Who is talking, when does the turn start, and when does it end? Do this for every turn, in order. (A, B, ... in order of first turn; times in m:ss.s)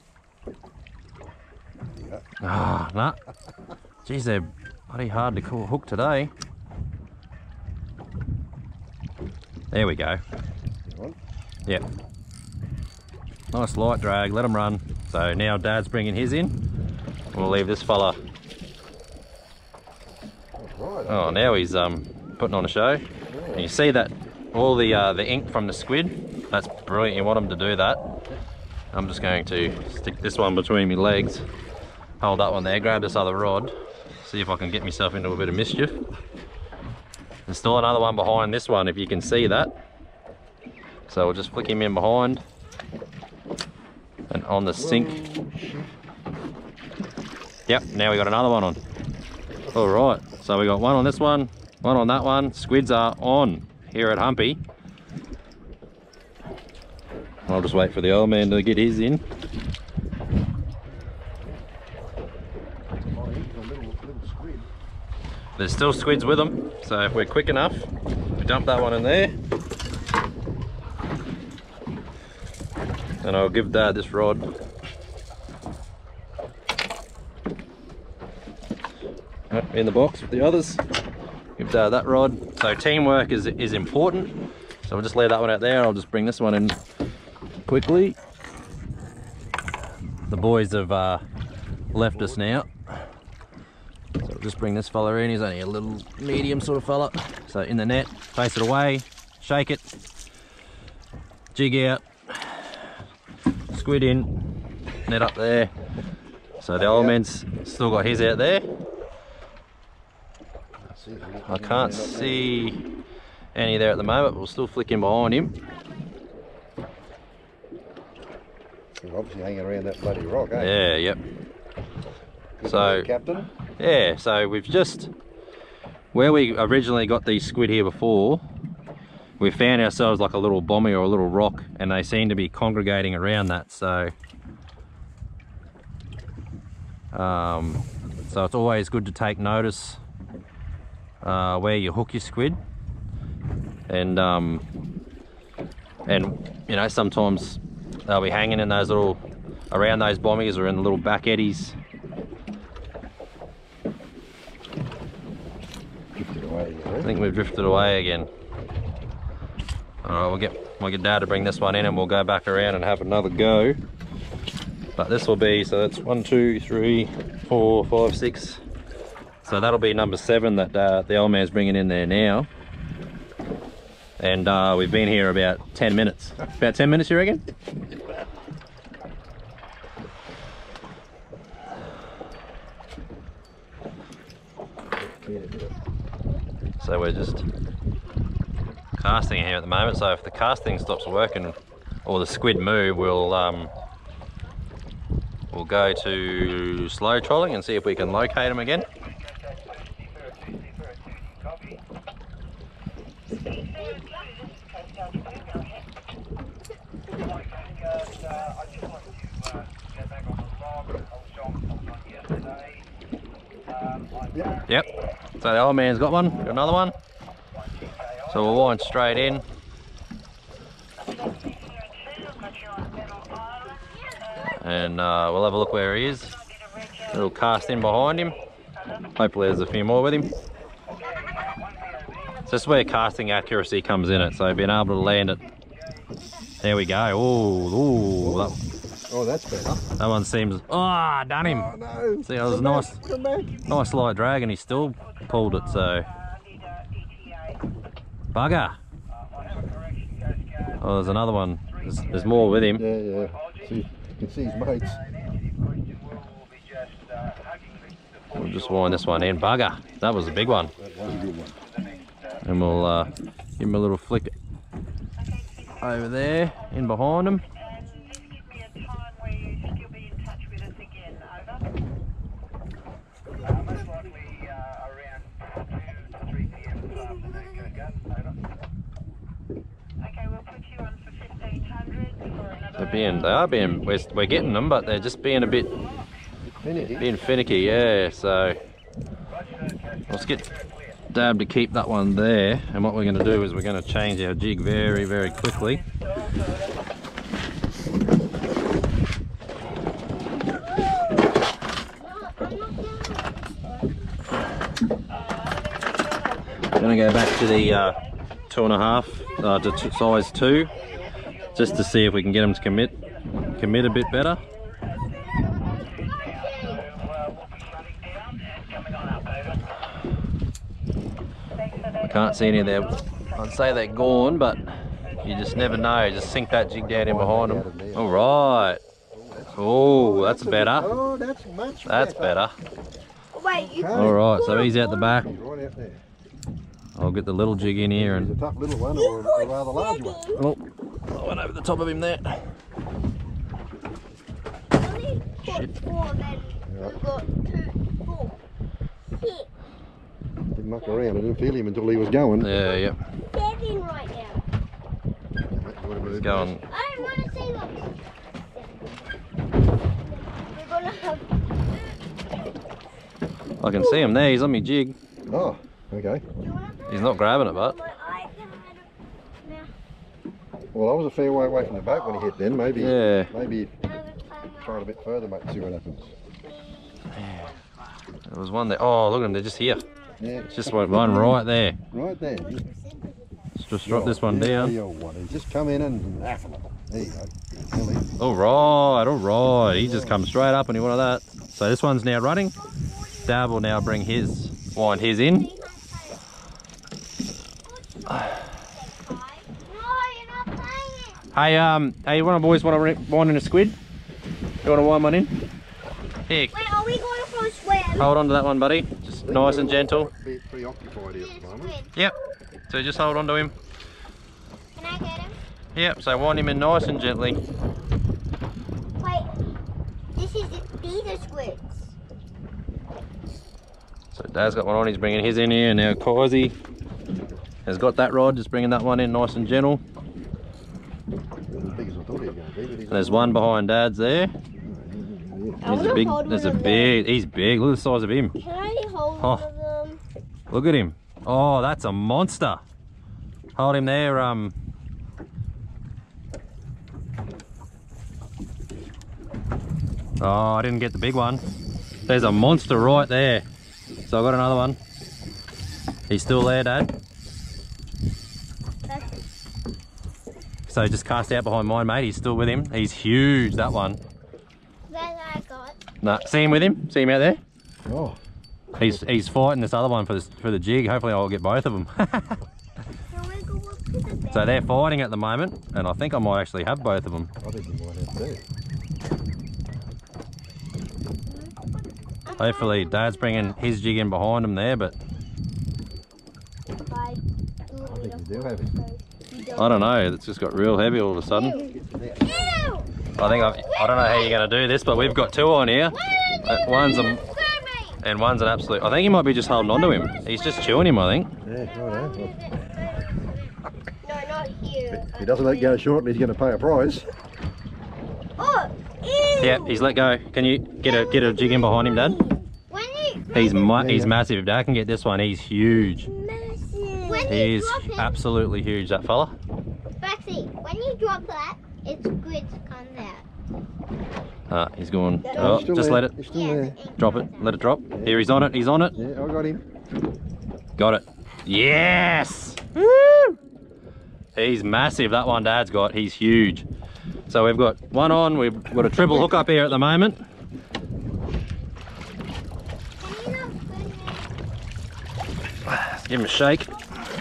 0:01.9-0:02.2 A
0:02.4-0:03.2 B
0:04.0-0:06.3 B
0:09.7-0:10.2 B
0:10.8-0:11.2 A
0:13.5-0:16.6 B
0:17.3-0:18.2 B
0:20.6-0:21.5 A
0:21.1-0:28.0 B
0:23.3-0:23.7 A
0:28.9-0:31.4 B
0:32.2-0:36.0 B
0:37.5-0:39.7 B
0:41.1-0:42.4 B
0:44.3-0:45.2 B
0:44.8-0:45.9 A
0:47.7-0:48.8 B
0:49.7-0:54.6 B
0:57.5-0:59.2 B
1:03.1-1:04.7 A
1:05.6-1:09.4 B
1:13.2-1:14.5 B
1:19.5-1:20.8 B
1:21.6-1:24.3 B
1:24.9-1:26.8 B
1:27.7-1:28.2 B
1:30.3-1:31.2 B
1:31.9-1:33.0 B
1:34.2-1:39.8 B
1:41.5-1:42.7 B
1:43.7-1:44.3 B
1:45.1-1:45.7 B
1:46.6-1:48.7 B
1:46.8-1:47.2 A
1:50.8-1:52.6 A
1:51.4-1:52.8 B
1:53.6-1:55.5 B
1:59.0-2:00.8 A
2:00.6-2:01.2 B
2:02.6-2:03.5 A
2:02.6-2:03.1 B
2:03.8-2:05.1 B
2:06.1-2:08.4 B
2:09.4-2:14.1 B
2:17.1-2:20.0 B
2:21.2-2:22.6 B
2:23.9-2:24.6 B
2:26.1-2:29.2 B
2:29.7-2:31.8 B
2:36.2-2:37.1 A
2:37.0-2:38.3 B
2:40.0-2:43.8 B
2:45.0-2:48.6 B
2:49.4-2:52.5 B
2:54.2-2:57.4 B
3:05.0-3:05.7 A
3:06.8-3:07.4 B
3:09.0-3:13.7 B
3:15.5-3:18.9 B
3:34.3-3:34.6 A
3:35.4-3:36.9 B
3:38.3-3:39.4 B
3:44.5-3:46.3 B
3:47.1-3:48.4 B
3:49.2-3:50.3 B
3:52.5-3:55.4 B
3:56.6-3:58.6 B
3:58.2-3:59.9 A
4:00.0-4:01.7 B
4:01.4-4:03.6 A
4:02.2-4:03.0 B
4:03.7-4:06.1 B
4:08.3-4:08.8 B
4:10.8-4:12.8 B
4:12.8-4:15.0 A
4:18.3-4:20.7 B
4:20.7-4:21.6 A
4:22.4-4:24.3 B
4:25.8-4:27.4 B
4:42.8-4:45.7 B
4:46.6-4:47.1 A
4:47.0-4:48.6 B
4:50.1-4:50.5 B
4:51.1-4:55.8 B
5:02.0-5:03.3 C
5:06.8-5:08.0 B
5:08.5-5:10.7 B
5:11.5-5:12.9 B
5:13.5-5:14.4 B
5:15.3-5:16.9 C
5:22.0-5:24.6 B
5:25.2-5:28.8 B
5:26.9-5:28.4 A
5:29.1-5:32.4 A
5:29.6-5:30.9 B
5:31.9-5:32.6 B
5:33.4-5:35.2 C
5:33.5-5:36.0 A
5:33.9-5:35.3 B
5:37.0-5:38.3 B
5:37.9-5:40.2 A
5:38.9-5:40.4 C
5:40.4-5:42.5 B
5:44.7-5:48.4 C
5:45.4-5:45.7 B
5:46.7-5:47.0 A
5:49.1-5:49.5 C
5:50.5-5:52.5 A
5:52.4-5:53.0 B
5:52.5-5:54.4 C
5:55.5-5:56.6 A
5:56.0-5:56.6 B
5:56.7-5:59.0 C
6:00.0-6:02.0 C
6:03.6-6:05.0 B
6:03.8-6:04.1 C
6:05.3-6:06.2 A
6:06.4-6:08.9 C
6:06.9-6:07.8 B
6:09.4-6:09.7 C
6:10.7-6:13.7 A
6:11.9-6:13.1 C
6:12.8-6:13.3 B
6:13.8-6:15.0 C
6:14.6-6:16.1 A
6:16.5-6:17.1 C
6:17.1-6:17.5 B
6:18.3-6:19.8 B
6:20.2-6:21.4 A
6:20.5-6:21.8 B
6:21.9-6:22.6 A
6:22.3-6:23.5 C
6:23.6-6:24.8 B
6:23.8-6:28.1 A
6:28.2-6:32.6 B
6:29.6-6:30.3 A
6:32.6-6:36.2 C
6:33.2-6:35.5 B
6:37.6-6:41.2 C
6:41.3-6:43.8 B
6:44.6-6:45.3 B
6:46.3-6:46.6 B
6:46.5-6:48.1 C
6:48.0-6:50.1 B
6:49.2-6:51.8 A
6:51.1-6:52.3 C
6:52.7-6:53.5 B
6:54.8-6:55.4 C
6:55.8-6:57.4 B
6:59.0-6:59.3 C
7:00.2-7:01.9 C
7:04.2-7:06.6 B
7:07.7-7:09.8 B
7:11.5-7:13.4 A
7:12.9-7:14.3 B
7:14.6-7:16.0 A
7:15.6-7:17.0 C
7:15.6-7:18.4 B
7:18.4-7:20.0 C
7:19.2-7:19.5 B
7:20.5-7:22.6 B
7:23.6-7:24.6 B
7:30.2-7:31.4 B
7:32.1-7:33.4 B
7:34.0-7:34.8 B
7:36.1-7:36.9 B
7:38.9-7:39.2 C
7:40.7-7:44.0 B
7:44.9-7:45.8 C
7:46.0-7:47.4 B
7:47.8-7:48.2 A
7:48.8-7:52.4 B
7:53.1-7:54.6 C
7:54.3-7:57.3 B
7:57.4-7:58.4 A
8:01.3-8:01.7 C
8:02.2-8:03.6 C
8:02.4-8:05.0 B
8:06.8-8:09.9 C
8:07.8-8:08.7 A
8:09.6-8:11.6 B
8:11.3-8:14.4 C
8:11.5-8:12.7 A
8:13.2-8:17.2 B
8:15.9-8:18.0 C
8:18.0-8:21.3 B
8:19.4-8:20.9 C
8:21.4-8:22.5 A
8:21.6-8:25.8 C
8:24.9-8:27.1 A
8:28.4-8:29.9 C
8:29.4-8:32.2 B
8:30.8-8:33.8 C
8:33.3-8:36.1 B
8:33.7-8:34.2 A
8:36.0-8:38.2 C
8:37.2-8:39.4 B
8:40.0-8:43.3 C
8:44.5-8:46.1 B
8:45.2-8:45.7 C
8:45.3-8:46.8 A
8:46.3-8:47.6 C
8:47.0-8:49.0 B
8:47.9-8:48.3 A
8:49.0-8:49.6 A
8:50.8-8:52.6 B
8:52.8-8:53.4 C
8:54.4-8:56.7 B
8:57.3-9:00.2 B
9:03.0-9:04.3 C
9:05.7-9:06.7 B